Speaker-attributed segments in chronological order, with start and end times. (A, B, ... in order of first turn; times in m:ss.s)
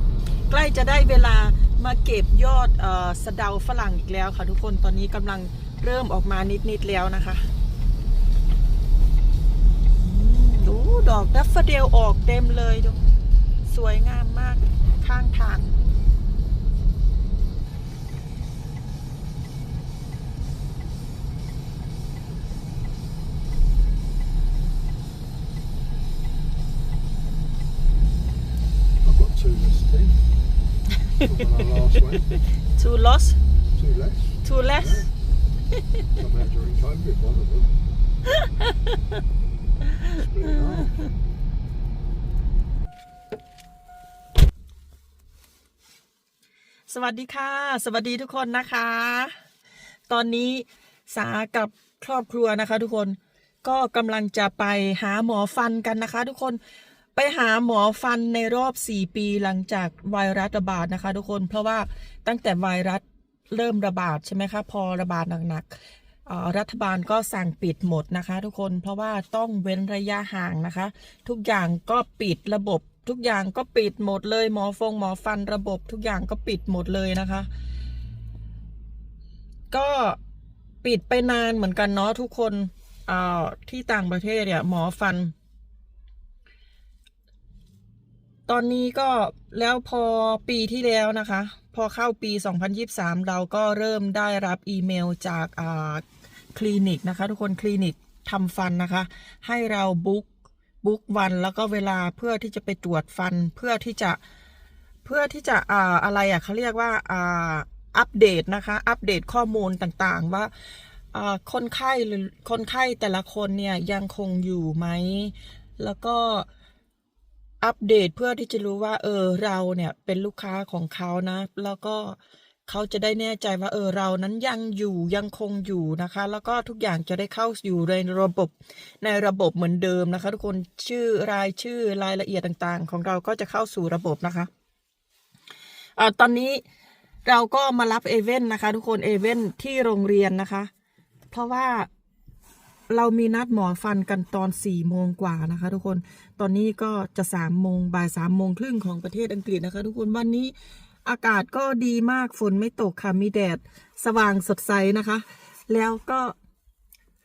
0:00.5-0:07.4 A
0:10.0-0:13.0 A
0:13.6-0:15.7 A
0:29.0-0:30.2 B
0:31.2-0:32.3 B
0:32.3-0:33.4 A
0:33.7-0:35.1 B
0:34.4-0:35.1 A
0:36.2-0:37.7 B
0:38.4-0:38.7 A
0:40.2-0:41.1 B
0:46.9-0:49.3 A
0:50.1-0:56.6 A
0:57.1-1:05.7 A
1:06.3-1:17.5 A
1:19.7-1:20.2 A
1:20.8-1:25.3 A
1:28.5-1:36.0 A
1:36.5-1:40.3 A
1:40.8-1:44.2 A
1:45.0-1:50.5 A
1:51.1-1:56.5 A
1:57.6-2:14.5 A
2:16.0-2:16.6 A
2:17.2-2:20.7 A
2:21.3-2:21.9 A
2:22.9-2:30.5 A
2:31.0-2:36.3 A